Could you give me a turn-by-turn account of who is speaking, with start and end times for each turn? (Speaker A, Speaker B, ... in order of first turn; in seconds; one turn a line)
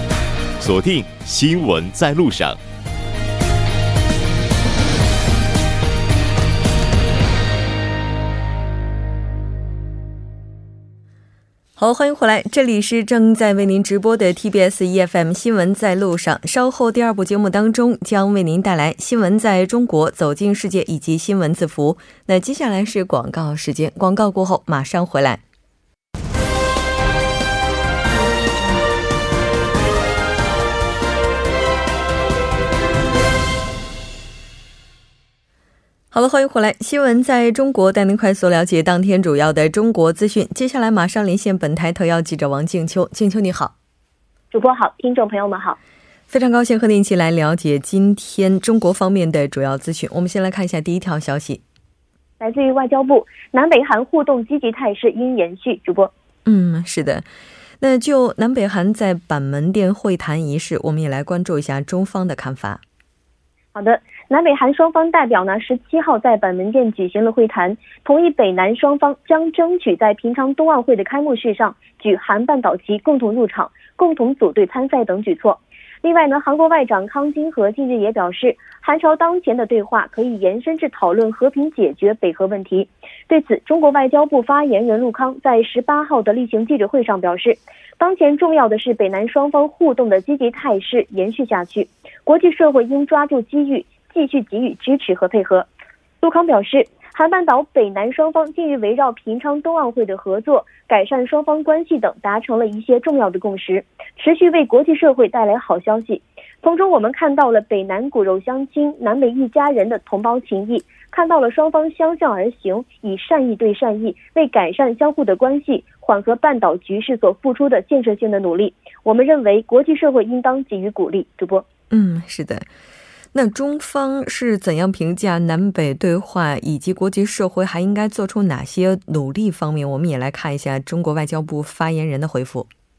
Speaker A: 0.6-2.6
Speaker B: 11.8-25.4
Speaker B: 36.1-43.7
Speaker C: 44.5-45.8
Speaker B: 46.3-51.6
Speaker C: 52.4-56.1
Speaker B: 56.5-57.3
Speaker B: 57.8-62.8
Speaker C: 63.7-95.7
Speaker C: 96.2-121.7
Speaker B: 121.9-122.7
Speaker B: 123.3-132.7